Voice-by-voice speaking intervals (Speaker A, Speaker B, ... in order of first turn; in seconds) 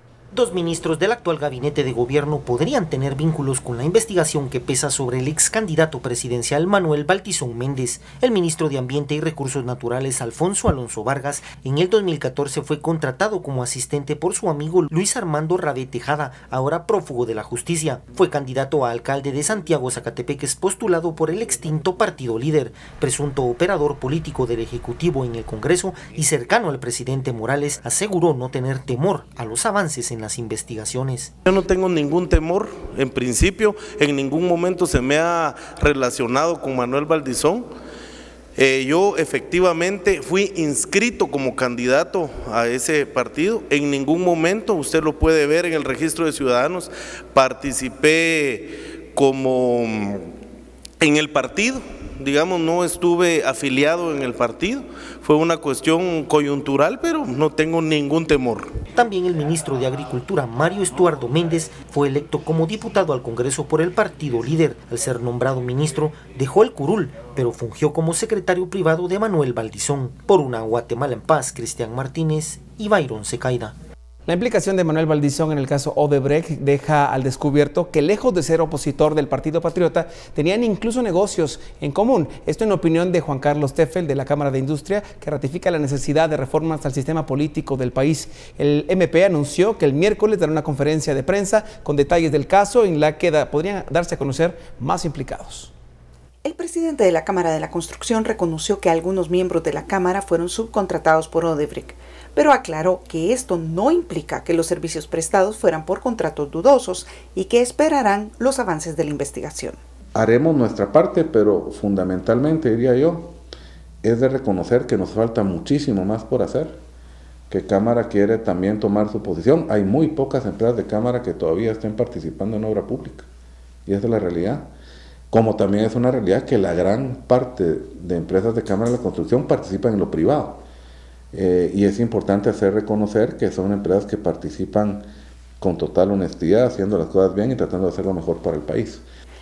Speaker A: 0.3-31.3, 58.9-73.8
Speaker B: 31.5-37.5, 38.6-48.6, 49.1-49.9, 51.0-58.6
Speaker C: 74.2-95.7
Speaker D: 96.4-109.8
Speaker E: 110.1-113.4, 114.0-116.8, 117.5-123.3, 123.8-124.7, 125.3-130.6, 131.3-135.0, 135.6-139.0